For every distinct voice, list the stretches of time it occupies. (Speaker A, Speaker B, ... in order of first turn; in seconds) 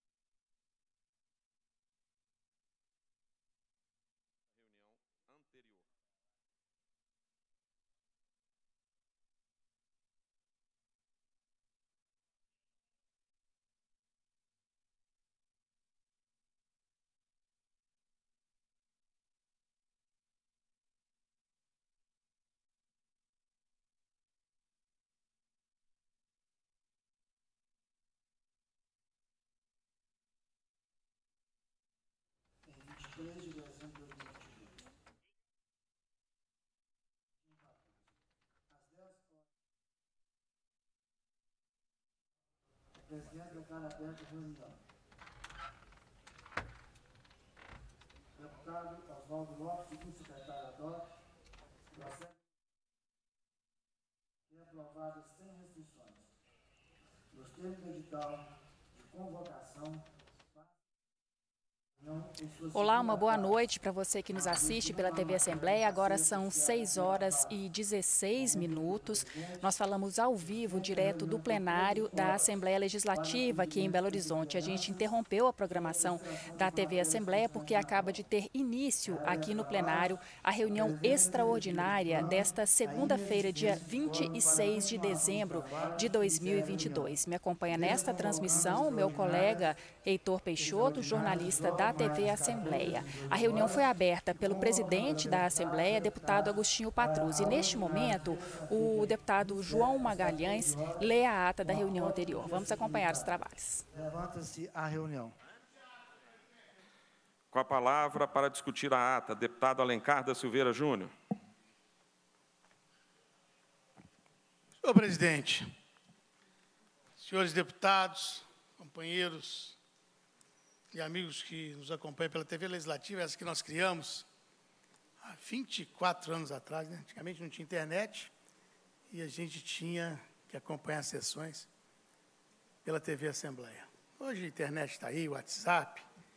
Speaker A: 4.7-5.8, 107.5-111.1
Speaker B: 32.6-34.8, 37.4-38.0, 38.7-39.4, 43.0-44.8, 48.3-51.0, 51.9-52.4, 54.5-56.2, 57.3-60.0, 62.0-63.6, 64.3-67.6, 68.3-69.7, 70.4-75.1, 75.7-78.2, 79.0-87.1, 87.7-89.7, 90.6-101.1, 101.6-103.3, 103.9-105.3
Speaker C: 62.7-103.8
Speaker D: 114.8-115.7, 117.2-119.8, 120.9-124.3, 125.2-128.3, 129.1-131.7, 132.8-136.0